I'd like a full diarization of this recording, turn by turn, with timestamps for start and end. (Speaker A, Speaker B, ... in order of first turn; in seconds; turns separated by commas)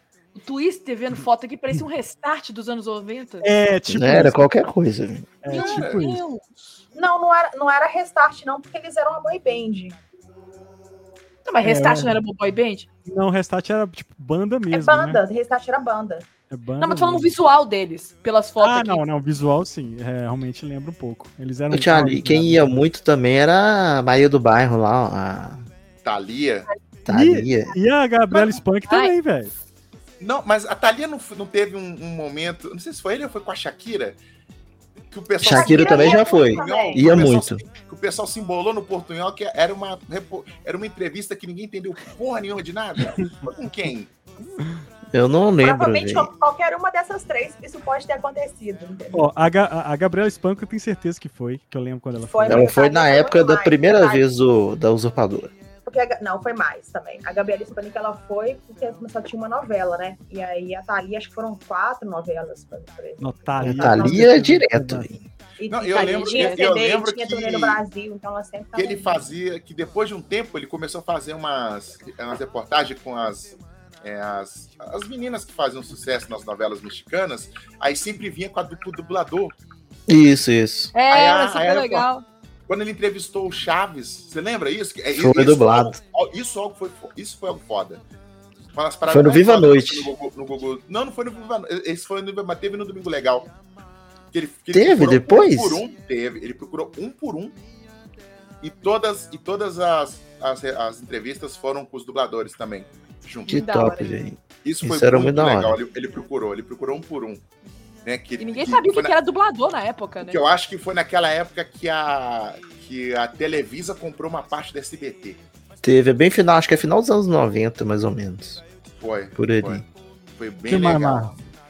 Speaker A: 0.3-3.5, Speaker B: 3.4-4.5, Speaker C: 3.9-5.3, Speaker B: 5.4-6.2, Speaker A: 5.5-6.5, Speaker D: 5.5-6.0, Speaker E: 6.9-10.0, Speaker A: 11.4-12.9, Speaker B: 11.6-12.2, Speaker B: 13.1-15.2, Speaker E: 14.7-16.3, Speaker B: 16.5-17.3, Speaker A: 16.8-19.0, Speaker B: 18.6-22.7, Speaker C: 21.7-25.6, Speaker D: 26.0-26.7, Speaker C: 27.1-27.7, Speaker B: 27.1-29.5, Speaker A: 28.4-29.1, Speaker D: 30.2-34.2, Speaker D: 35.1-44.1, Speaker C: 35.4-37.6, Speaker E: 35.5-37.3, Speaker C: 45.1-46.3, Speaker E: 45.6-49.3, Speaker B: 49.1-52.7, Speaker E: 52.3-54.2, Speaker C: 52.5-55.5, Speaker E: 55.8-64.2, Speaker B: 63.2-65.1, Speaker C: 63.6-65.2, Speaker E: 65.6-69.2, Speaker D: 65.7-67.8, Speaker A: 65.9-66.8, Speaker D: 68.8-79.5, Speaker C: 80.1-80.9, Speaker A: 80.9-82.2, Speaker D: 81.1-82.1, Speaker D: 82.7-88.0, Speaker C: 85.1-86.0, Speaker D: 88.7-93.5, Speaker C: 89.0-90.1, Speaker D: 94.3-97.5, Speaker C: 94.7-95.8, Speaker D: 98.6-103.7, Speaker A: 103.5-104.1, Speaker C: 103.5-105.8, Speaker D: 104.6-107.4, Speaker D: 108.0-109.1, Speaker A: 108.4-110.4, Speaker D: 110.2-115.4, Speaker C: 115.8-118.6, Speaker D: 119.0-119.8, Speaker C: 119.3-119.8, Speaker D: 120.4-121.3, Speaker B: 120.7-121.3